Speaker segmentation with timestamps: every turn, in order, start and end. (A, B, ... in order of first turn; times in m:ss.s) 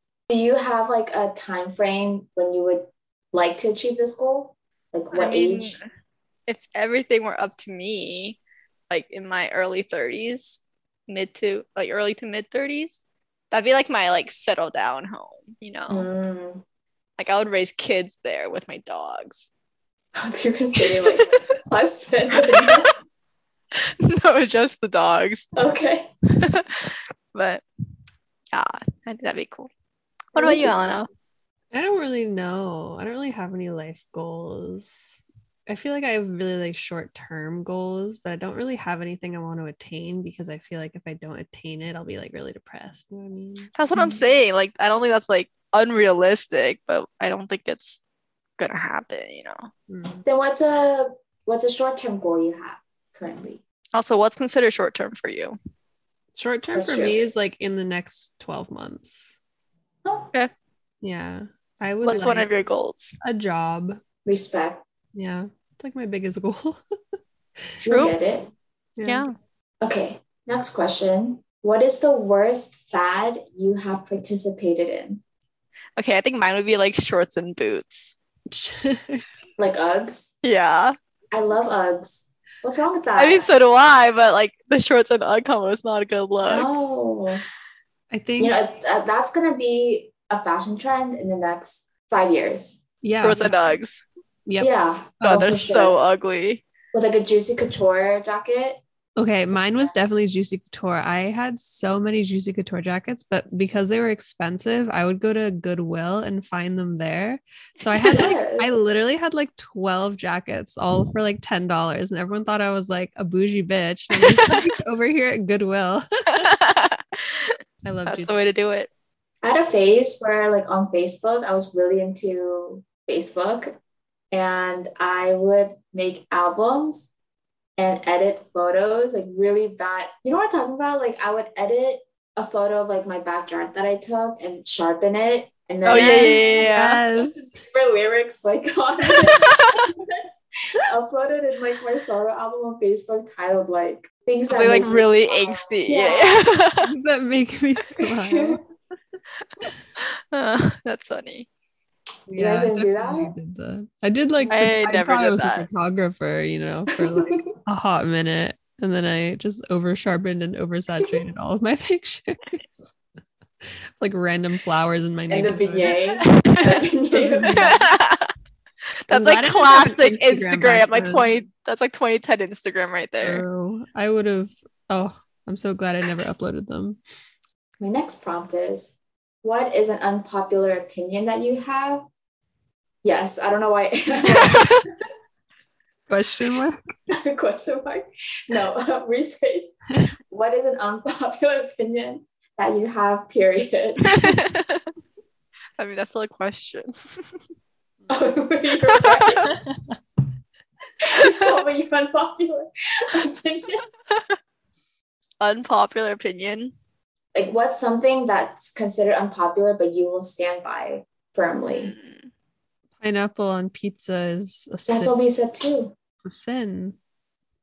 0:00.3-0:05.8 A
0:05.1-0:05.9 B
0:06.5-0:08.4 B
0:08.9-0:16.1 B
0:15.9-0:16.6 A
0:17.2-0:19.5 B
0:20.1-0:22.9 A
0:20.8-0:21.4 B
0:22.3-0:22.9 B
0:23.8-0:25.5 B
0:25.6-0:26.1 A
0:26.4-0:27.6 B
0:28.5-0:29.7 B
0:30.3-0:31.1 B
0:30.3-0:30.8 A
0:31.7-0:43.7 C
0:43.8-0:48.0 B
0:43.9-0:44.2 A
0:48.6-0:49.7 B
0:49.9-0:50.2 C
0:50.2-0:53.6 A
0:53.9-0:55.6 B
0:56.4-0:59.3 C
0:56.7-0:57.2 A
1:01.0-1:02.5 C
1:02.0-1:03.2 B
1:03.2-1:04.0 C
1:04.2-1:04.8 A
1:05.1-1:06.8 C
1:07.8-1:08.5 A
1:07.9-1:08.2 B
1:09.0-1:09.3 C
1:09.0-1:09.3 B
1:09.8-1:15.2 A
1:16.0-1:18.2 B
1:18.5-1:19.3 C
1:19.6-1:20.3 A
1:20.4-1:20.9 B
1:21.3-1:23.5 A
1:23.2-1:26.7 B
1:26.4-1:27.4 A
1:28.1-1:28.6 C
1:28.4-1:32.8 A
1:33.0-1:33.7 C
1:33.2-1:34.0 B
1:34.6-1:36.0 A
1:35.2-1:36.6 B
1:36.9-1:38.8 A
1:39.2-1:56.5 C
1:39.5-1:39.9 A
1:47.8-1:48.3 B
1:48.1-1:48.8 A
1:54.1-1:54.6 B
1:56.3-1:57.5 B
1:57.8-1:58.3 C
1:58.1-1:58.9 B
1:59.4-2:03.8 A
2:04.3-2:07.1 A
2:07.8-2:16.7 A
2:15.8-2:17.0 B
2:15.9-2:17.6 C
2:17.5-2:20.2 A
2:19.2-2:19.9 B
2:20.8-2:26.4 A
2:24.5-2:26.9 B
2:26.8-2:28.6 C
2:28.0-2:28.6 A
2:30.0-2:31.5 B
2:32.3-2:42.6 C
2:32.3-2:33.3 A
2:34.5-2:35.7 B
2:37.0-2:37.5 A
2:44.0-2:46.0 C
2:45.3-2:47.7 A
2:46.2-2:46.8 B
2:47.1-2:47.8 C
2:47.4-2:48.3 B
2:49.1-2:53.4 B
2:49.1-2:51.3 C
2:53.2-2:57.0 C
2:57.8-3:02.1 A
3:03.0-3:04.8 A
3:04.4-3:04.8 B
3:06.1-3:06.9 C
3:07.1-3:09.8 A
3:10.3-3:14.2 A
3:14.0-3:14.8 B
3:15.8-3:17.4 B
3:18.1-3:19.5 A
3:18.9-3:19.4 B
3:19.7-3:19.9 C
3:21.0-3:23.8 A
3:21.2-3:21.5 B
3:24.1-3:24.4 B
3:25.4-3:26.7 B
3:27.3-3:31.9 A
3:31.7-3:32.3 B
3:33.0-3:35.1 C
3:34.9-3:35.9 A
3:36.2-3:37.0 C